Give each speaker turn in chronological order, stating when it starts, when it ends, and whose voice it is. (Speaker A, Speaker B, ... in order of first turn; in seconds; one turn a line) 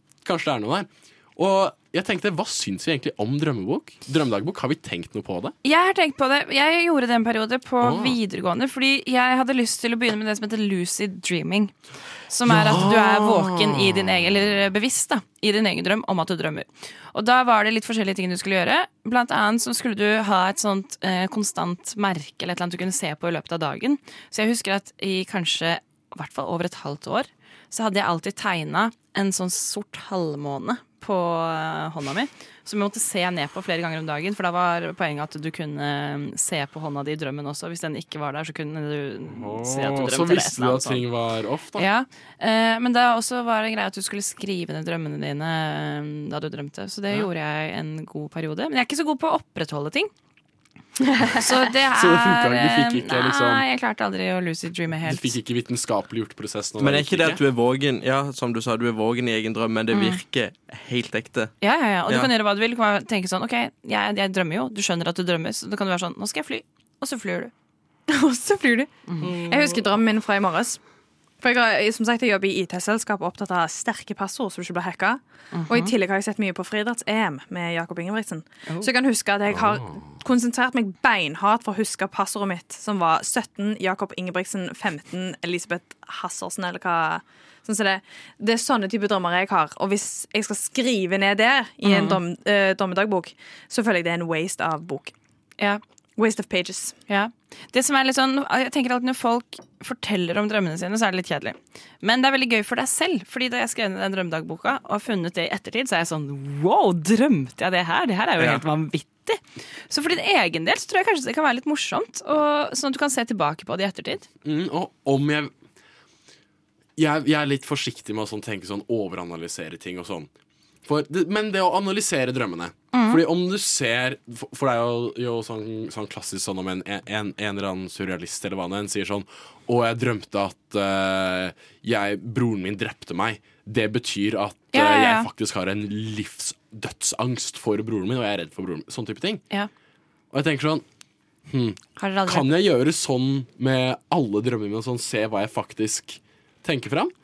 Speaker A: 0.2-5.5
Speaker B: 5.6-11.7
Speaker A: 7.8-8.2
Speaker B: 12.3-41.0
Speaker A: 12.4-14.5
Speaker A: 39.3-41.9
Speaker B: 41.8-50.1
Speaker B: 51.3-55.3
Speaker A: 51.9-53.6
Speaker A: 55.0-57.4
Speaker C: 56.8-61.5
Speaker B: 59.9-60.2
Speaker B: 61.6-67.5
Speaker D: 68.1-70.8
Speaker B: 69.1-69.7
Speaker D: 71.4-95.1
Speaker B: 75.5-75.9
Speaker A: 79.5-80.0
Speaker B: 91.8-92.2
Speaker D: 96.2-97.0
Speaker B: 97.1-114.2
Speaker A: 114.4-115.5
Speaker A: 117.0-120.3
Speaker A: 120.8-139.4
Speaker B: 122.9-123.2
Speaker B: 134.7-135.3
Speaker A: 140.3-140.8
Speaker A: 141.5-147.1
Speaker B: 142.0-142.5